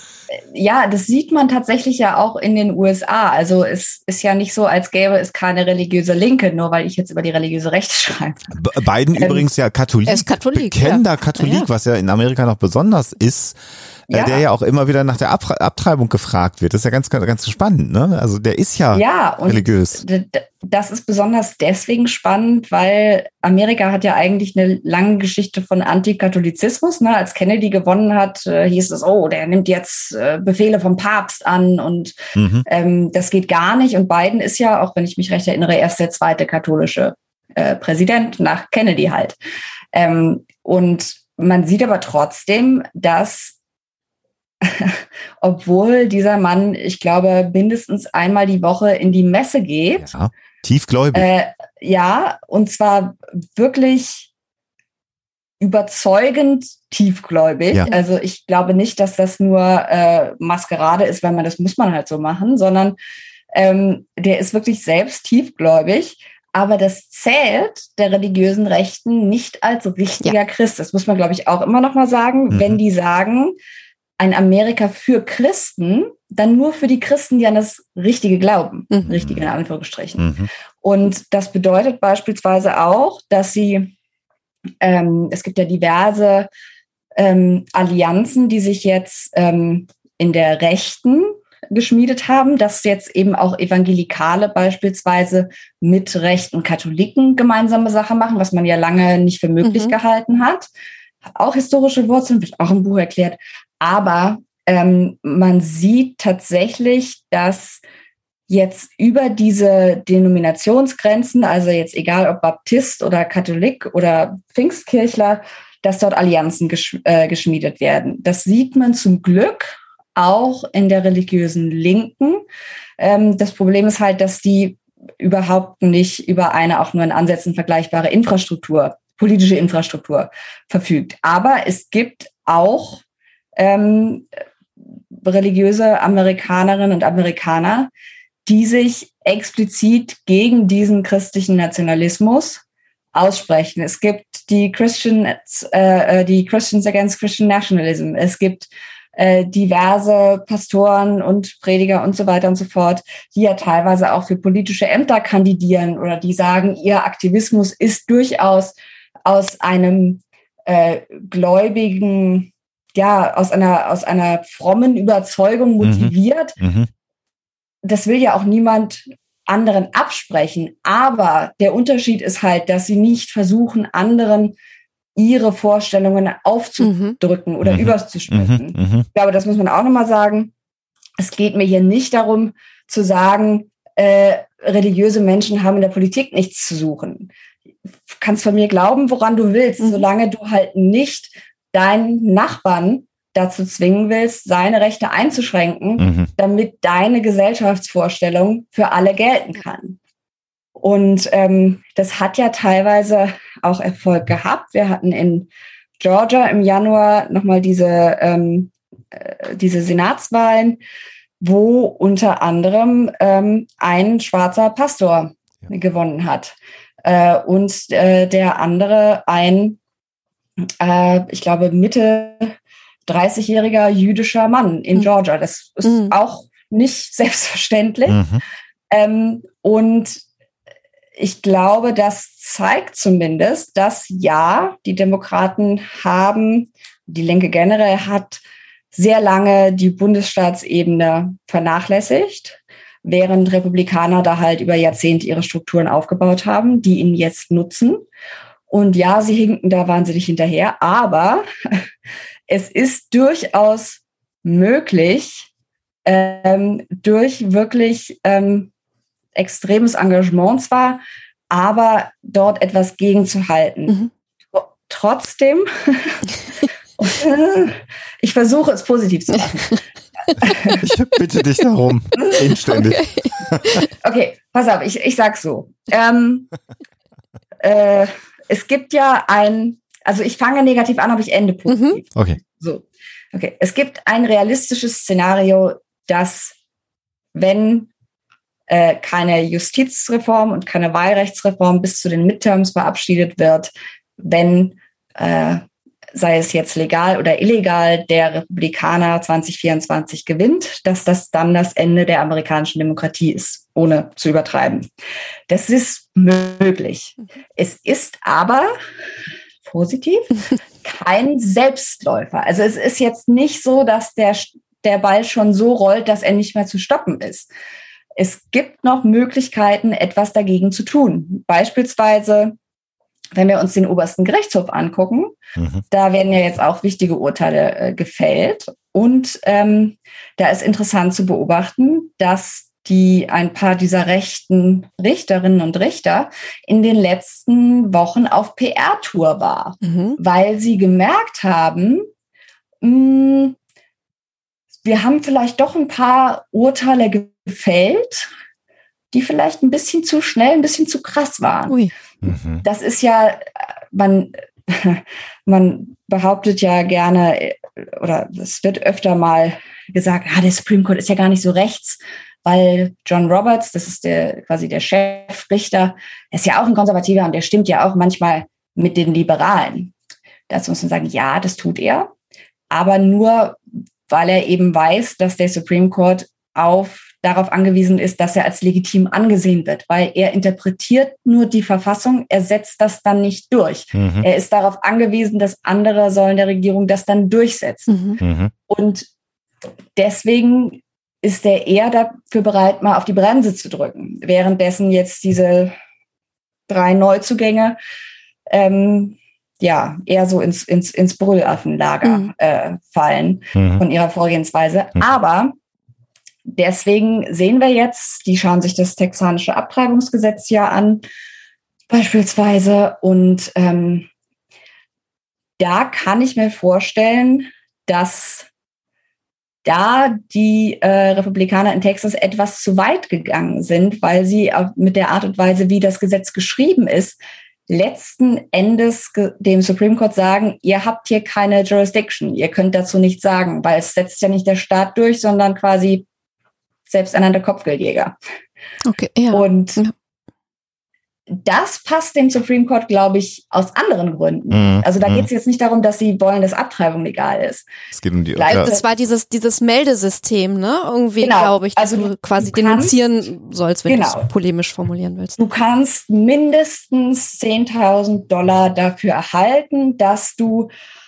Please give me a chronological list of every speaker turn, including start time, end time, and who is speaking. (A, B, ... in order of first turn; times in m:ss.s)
0:00.3-0:08.5 A
0:08.6-0:13.6 B
0:09.2-0:09.4 A
0:10.1-0:11.7 C
0:14.1-0:20.0 B
0:14.1-0:14.4 A
0:18.9-0:39.4 A
0:32.4-0:32.6 B
0:39.9-0:43.6 A
0:44.6-0:50.1 A
0:50.0-0:51.3 B
0:51.1-0:54.3 A
0:55.6-1:03.0 A
1:03.5-1:13.6 A
1:12.5-1:12.8 B
1:14.2-1:20.3 A
1:19.0-1:19.4 B
1:20.2-1:20.5 B
1:20.8-1:23.9 A
1:24.8-1:26.5 A
1:27.2-1:40.7 A
1:39.6-1:40.0 C
1:41.3-1:47.8 A
1:48.5-2:02.4 A
2:03.0-2:13.0 A
2:13.6-2:14.3 A
2:15.2-2:17.9 A
2:18.4-2:22.6 A
2:23.1-2:46.6 A
2:45.8-2:46.9 B
2:47.8-2:54.6 A
2:55.2-3:00.5 A
2:56.8-2:57.2 C
2:57.6-2:59.1 B
3:01.2-3:07.3 A
3:08.1-3:20.0 A
3:16.0-3:16.3 B
3:20.8-3:30.8 A
3:31.4-3:39.8 A
3:40.8-3:42.6 A
3:43.1-3:48.2 A
3:45.8-3:46.1 C
3:48.1-3:48.4 B
3:48.9-3:50.2 A
3:51.2-3:58.4 A
3:58.9-4:08.0 A
4:08.7-4:11.4 A
4:12.5-4:15.5 A
4:16.1-4:18.7 A
4:19.4-4:24.0 A
4:24.5-4:26.2 A
4:27.0-4:29.8 A
4:30.4-4:30.8 A
4:30.8-4:33.8 B
4:32.7-4:33.3 C
4:34.0-4:36.5 A
4:37.6-4:46.6 A
4:41.7-4:42.0 C
4:47.4-4:47.9 A
4:48.7-4:55.6 A
4:56.2-5:04.9 A
5:05.5-5:08.7 A
5:09.6-5:17.5 A
5:18.2-5:22.6 A
5:23.4-5:25.4 A
5:25.9-5:42.1 A
5:39.8-5:40.2 C
5:42.8-5:43.6 A
5:44.8-5:48.3 A
5:49.1-5:51.8 A
5:52.2-5:52.6 B
5:52.6-6:09.9 A
6:10.5-6:12.1 A
6:12.7-6:28.0 A
6:24.0-6:24.3 B
6:27.9-6:28.2 C
6:28.2-6:28.5 B
6:28.7-6:29.1 A
6:30.0-6:35.8 A
6:36.7-6:37.8 A
6:38.5-6:45.6 A
6:42.0-6:42.3 C
6:43.6-6:43.8 B
6:46.5-6:51.0 A
6:51.9-6:54.1 A
6:55.6-6:58.5 A
6:59.6-7:07.2 A
7:07.7-7:16.1 A
7:16.9-7:18.2 A
7:18.9-7:19.9 C
7:19.3-7:19.8 A
7:21.3-7:27.7 A
7:24.5-7:25.3 B
7:27.9-7:28.7 B
7:28.4-7:28.8 A
7:28.5-7:35.4 C
7:31.2-7:33.0 A
7:33.9-7:34.3 A
7:35.4-7:40.7 A